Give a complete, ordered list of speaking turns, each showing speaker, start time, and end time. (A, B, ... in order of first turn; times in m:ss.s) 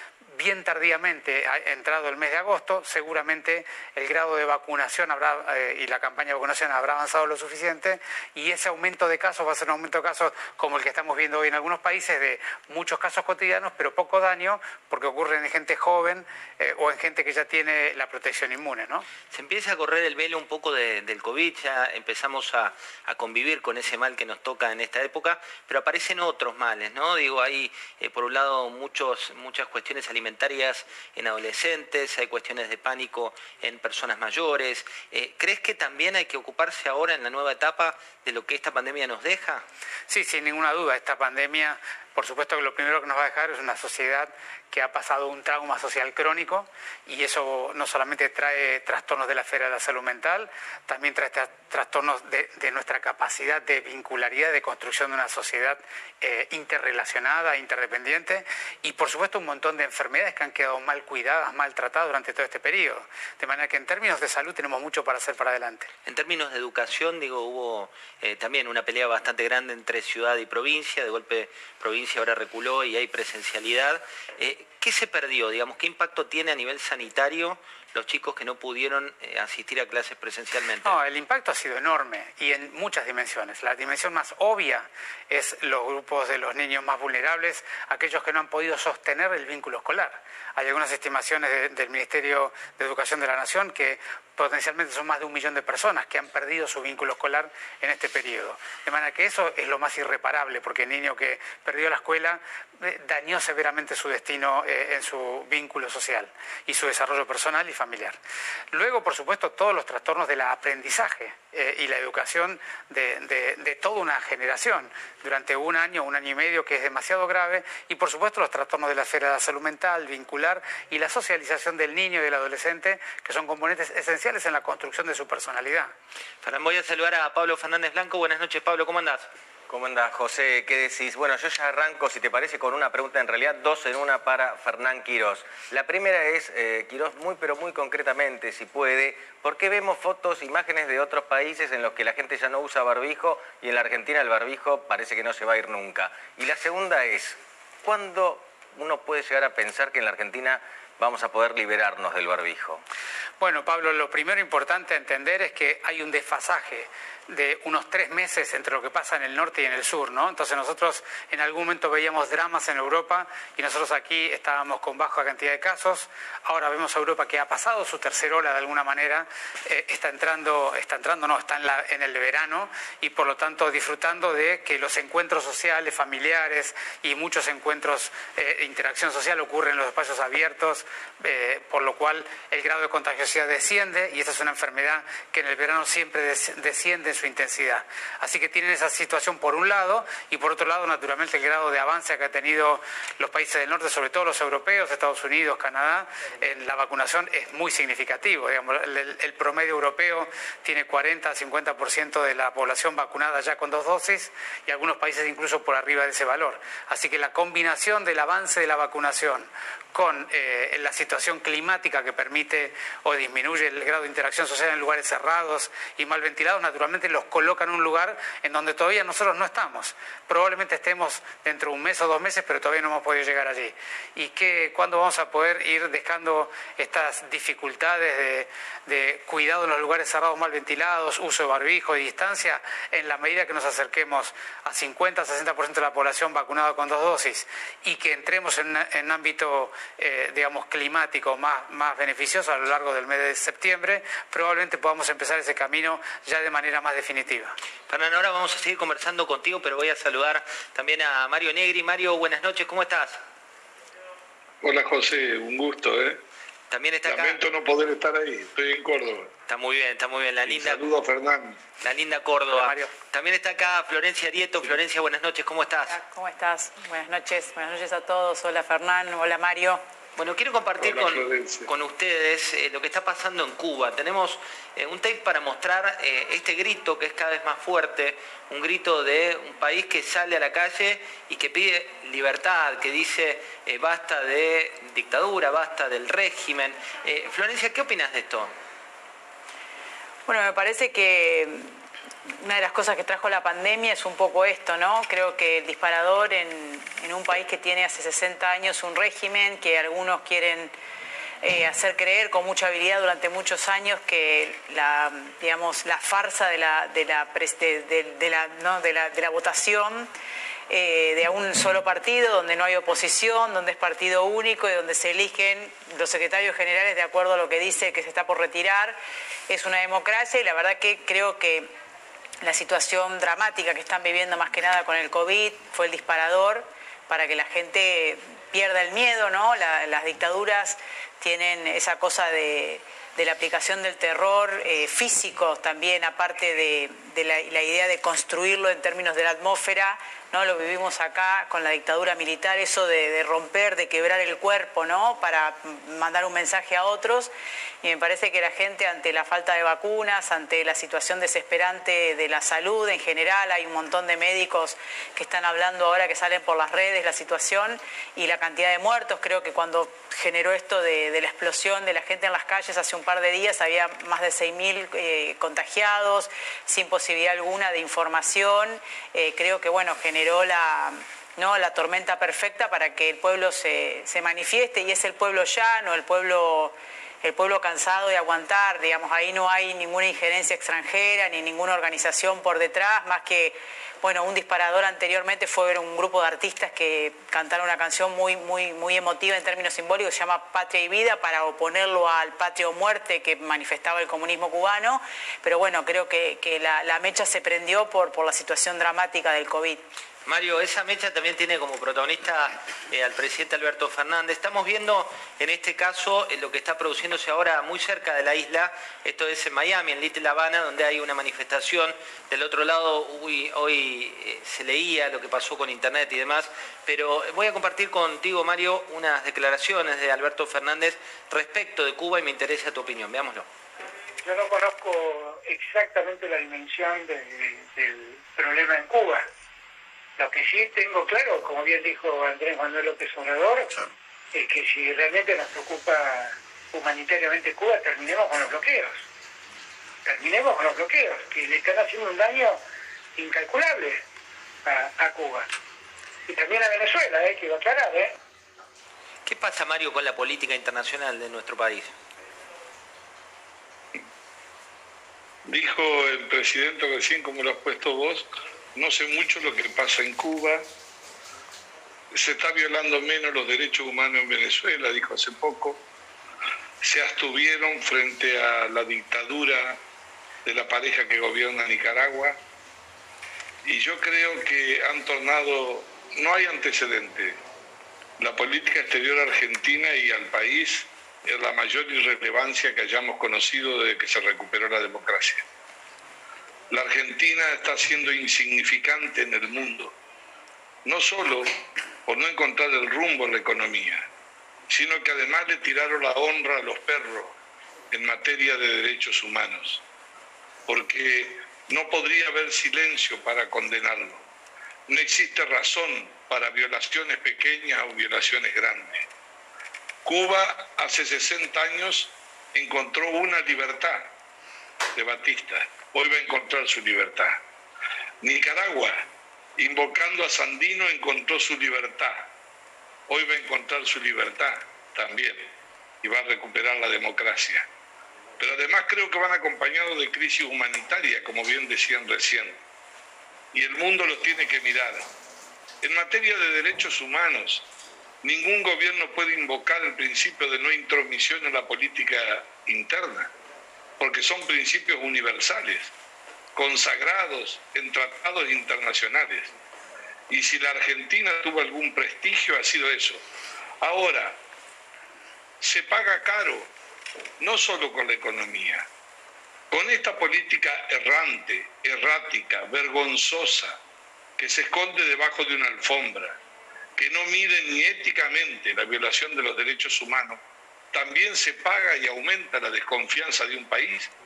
0:00.3-0:19.1 A
0:19.3-0:39.6 B
0:40.1-1:05.9 A
1:06.0-1:21.0 B
1:20.8-1:48.2 A
1:48.7-2:05.9 A
2:06.4-2:09.3 B
2:09.7-2:32.8 C
2:33.4-4:07.5 A
4:07.9-4:13.2 B
4:14.6-4:16.2 D
4:16.7-4:17.4 B
4:17.0-4:19.3 D
4:19.5-4:20.9 B
4:20.4-4:21.6 D
4:21.8-4:25.9 B
4:22.5-4:23.0 A
4:25.9-4:29.8 E
4:30.2-4:48.5 B
4:30.8-4:31.7 D
4:50.3-4:51.7 E
4:52.4-5:00.7 E
5:01.4-5:10.1 E
5:10.7-5:19.0 E
5:19.5-5:21.7 E
5:22.4-5:47.3 E
5:47.8-6:39.8 E
6:40.2-7:03.5 B
7:04.2-7:09.2 F
7:10.2-7:13.7 F
7:14.3-7:19.0 F
7:20.0-7:22.6 F
7:23.2-7:24.0 F
7:24.6-7:25.5 F
7:26.3-7:28.1 F
7:29.2-7:31.9 B
7:35.4-7:40.7 D
7:42.1-7:45.8 D
7:46.8-7:49.8 D
7:50.4-7:52.4 D
7:53.6-7:57.4 D
7:58.2-8:05.4 D
8:06.7-8:09.9 D
8:10.8-8:11.5 D
8:12.0-8:14.1 D
8:14.7-8:17.3 D
8:17.9-8:19.8 D
8:20.7-8:24.2 D
8:24.9-8:29.0 D
8:30.0-8:34.1 D
8:35.0-8:37.4 D
8:38.2-8:39.0 D
8:39.6-8:42.3 D
8:43.1-8:45.5 D
8:46.0-8:47.6 D
8:48.4-8:52.6 D
8:53.5-8:55.1 D
8:55.8-8:57.6 D
8:58.2-9:03.3 D
9:04.0-9:05.9 D
9:06.6-9:09.5 D
9:10.3-9:13.2 D
9:13.8-9:14.4 D
9:15.6-9:16.7 D
9:17.4-9:18.8 D
9:19.7-9:23.8 D
9:24.4-9:26.4 D
9:27.0-9:30.4 D
9:30.9-9:34.1 D